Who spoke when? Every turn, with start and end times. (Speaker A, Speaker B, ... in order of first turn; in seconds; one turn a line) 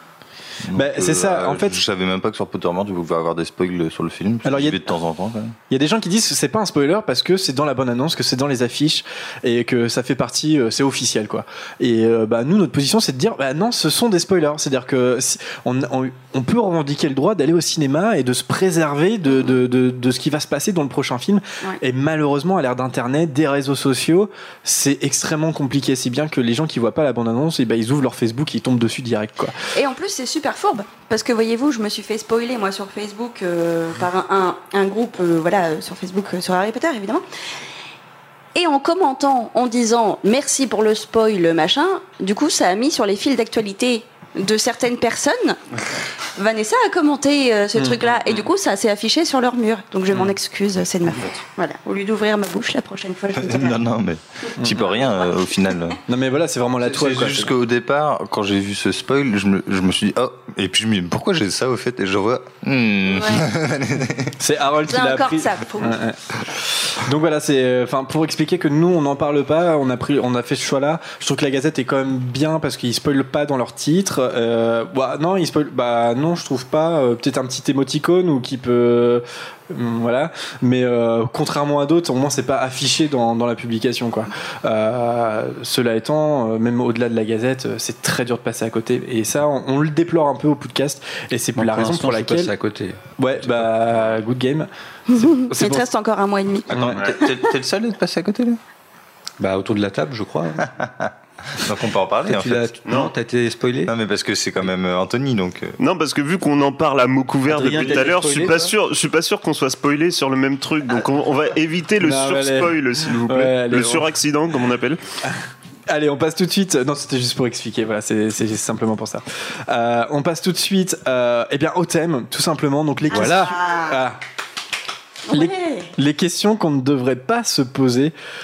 Speaker A: 0.6-5.5
Speaker B: 0.7-1.8
Speaker B: 4.4-4.8
Speaker B: 5.7-29.6
Speaker C: 29.7-37.2
Speaker C: 38.5-45.6
Speaker C: 46.4-53.8
Speaker A: 53.3-56.0
Speaker B: 54.6-54.9
Speaker B: 56.1-57.5
Speaker A: 56.8-64.3
Speaker C: 63.1-63.5
Speaker B: 64.4-66.2
Speaker C: 64.9-66.0
Speaker B: 66.8-92.5
Speaker D: 91.5-93.9
Speaker B: 93.2-95.9
Speaker C: 95.1-96.7
Speaker A: 96.7-98.6
Speaker D: 99.4-100.7
Speaker A: 100.7-102.7
Speaker D: 102.3-103.9
Speaker E: 102.8-103.1
Speaker A: 103.9-105.8
Speaker E: 105.8-115.0
Speaker D: 107.5-108.7
Speaker B: 112.0-114.1
Speaker B: 115.9-124.2
Speaker C: 123.1-124.0
Speaker D: 123.1-123.5
Speaker C: 125.3-125.9
Speaker B: 125.3-128.1